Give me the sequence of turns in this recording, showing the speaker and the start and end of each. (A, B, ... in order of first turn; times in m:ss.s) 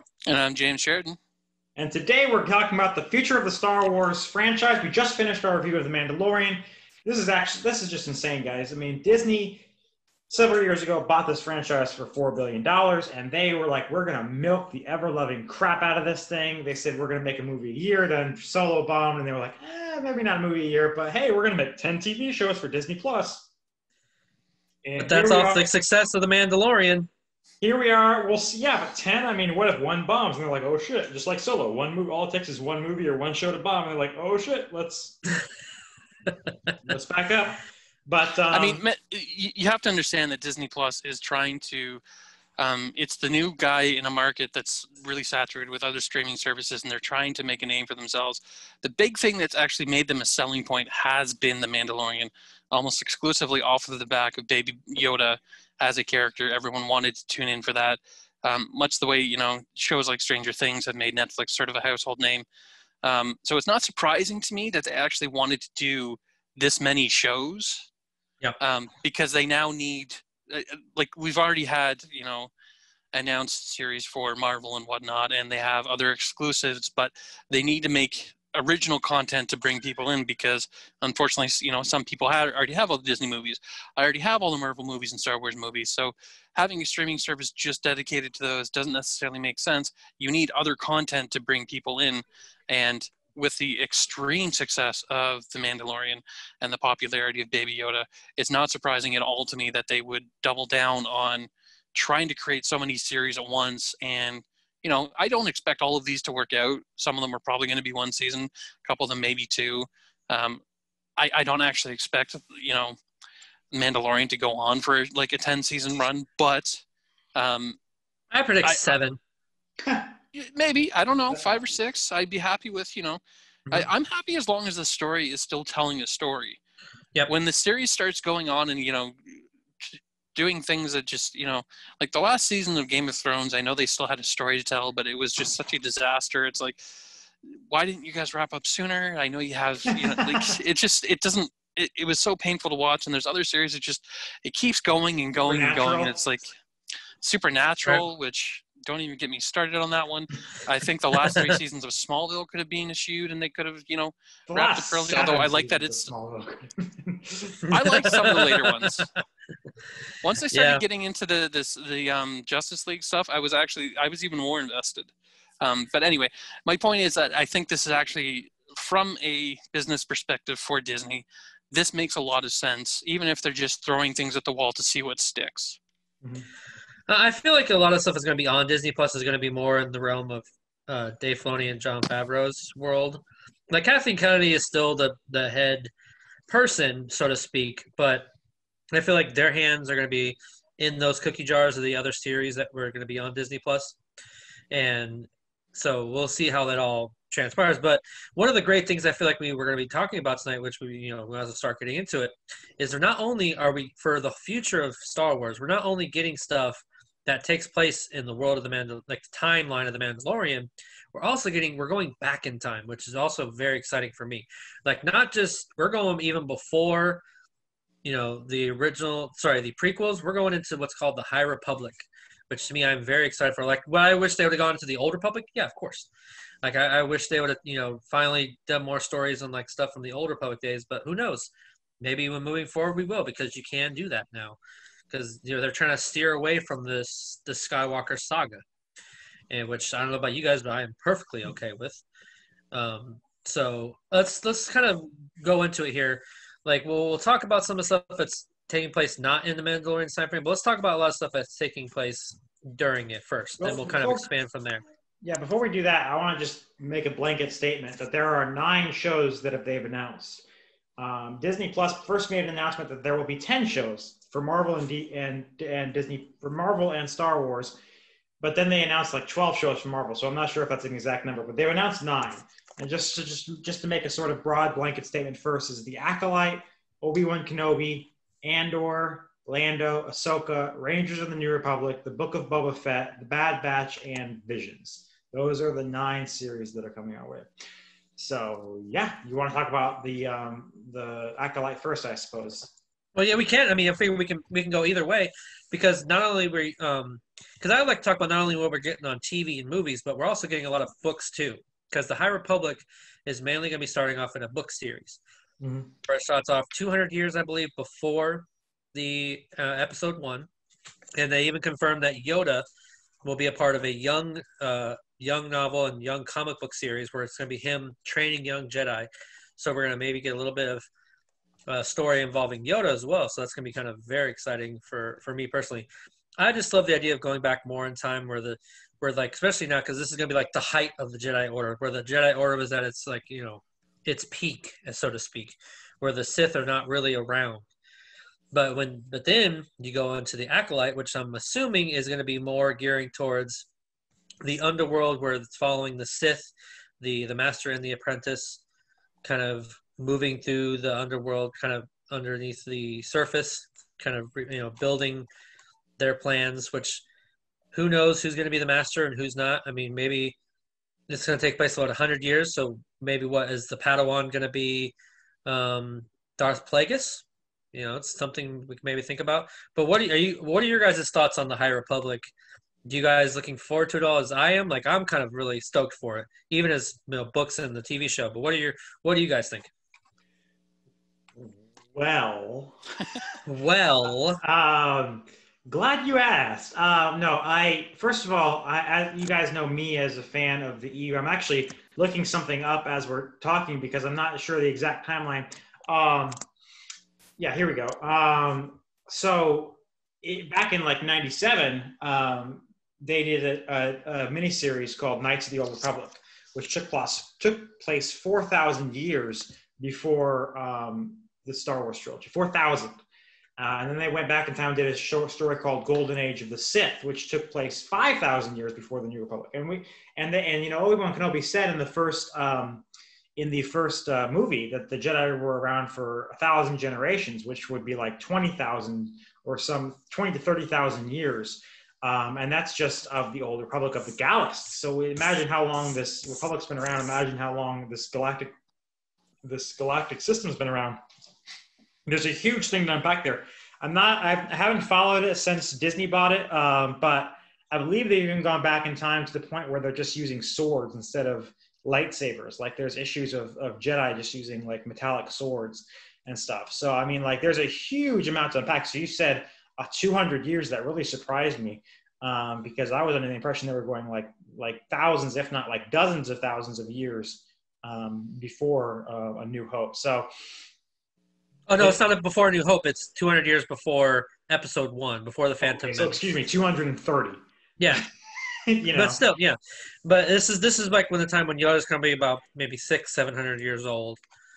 0:00.3-0:01.2 A
0:01.8-0:09.6 B
0:10.3-0:23.5 B
0:24.8-0:25.6 B
0:25.0-0:27.1 C
0:27.6-0:35.2 B
0:36.8-0:38.8 B
0:38.5-0:42.0 A
0:42.6-1:02.4 A
1:03.0-1:07.9 A
1:08.6-1:12.5 A
1:13.1-1:50.6 A
1:51.2-1:53.0 A
1:53.7-1:56.8 A
1:57.4-1:57.8 A
1:58.3-1:59.2 C
1:58.6-1:58.9 A
1:59.8-2:00.1 B
2:00.3-2:03.2 A
2:03.7-2:06.6 A
2:07.3-2:16.8 A
2:17.4-2:26.5 A
2:19.9-2:20.6 B
2:25.4-2:26.2 B
2:27.2-2:36.1 A
2:31.3-2:31.6 C
2:34.5-2:37.6 B
2:37.7-2:39.0 C
2:37.7-2:39.1 A
2:40.2-2:55.8 A
2:40.5-2:40.8 C
2:56.2-2:56.5 B
2:57.1-3:05.9 C
3:06.5-3:08.3 C
3:08.9-3:14.0 C
3:14.7-3:37.2 C
3:38.0-3:46.1 C
3:46.6-3:54.6 C
3:55.1-3:58.6 C
3:59.5-4:02.0 C
4:02.7-4:14.8 C
4:13.6-4:14.3 B
4:15.2-4:20.4 B
4:21.0-4:27.7 B
4:28.4-4:47.5 B
4:48.2-4:52.7 B
4:53.1-5:05.2 C
5:05.6-5:05.9 B
5:06.0-5:10.5 C
5:11.2-5:12.6 C
5:13.2-5:20.8 C
5:21.7-5:25.9 C
5:26.4-5:37.7 C
5:38.5-5:43.7 C
5:44.4-5:48.6 C
5:49.2-5:55.3 C
5:56.0-5:57.0 C
5:57.7-6:00.4 C
6:01.1-6:04.9 C
6:05.4-6:12.3 C
6:12.8-6:19.7 C
6:21.4-6:22.8 B
6:23.4-6:24.4 C
6:24.4-6:36.4 B
6:37.4-6:53.0 B
6:53.6-7:02.8 B
7:03.4-7:18.5 B
7:19.4-7:21.0 B
7:22.0-7:50.3 B
7:51.7-7:56.2 C
7:55.6-7:57.4 B
7:57.8-7:58.0 C
7:58.7-7:59.2 B
7:58.9-8:04.2 C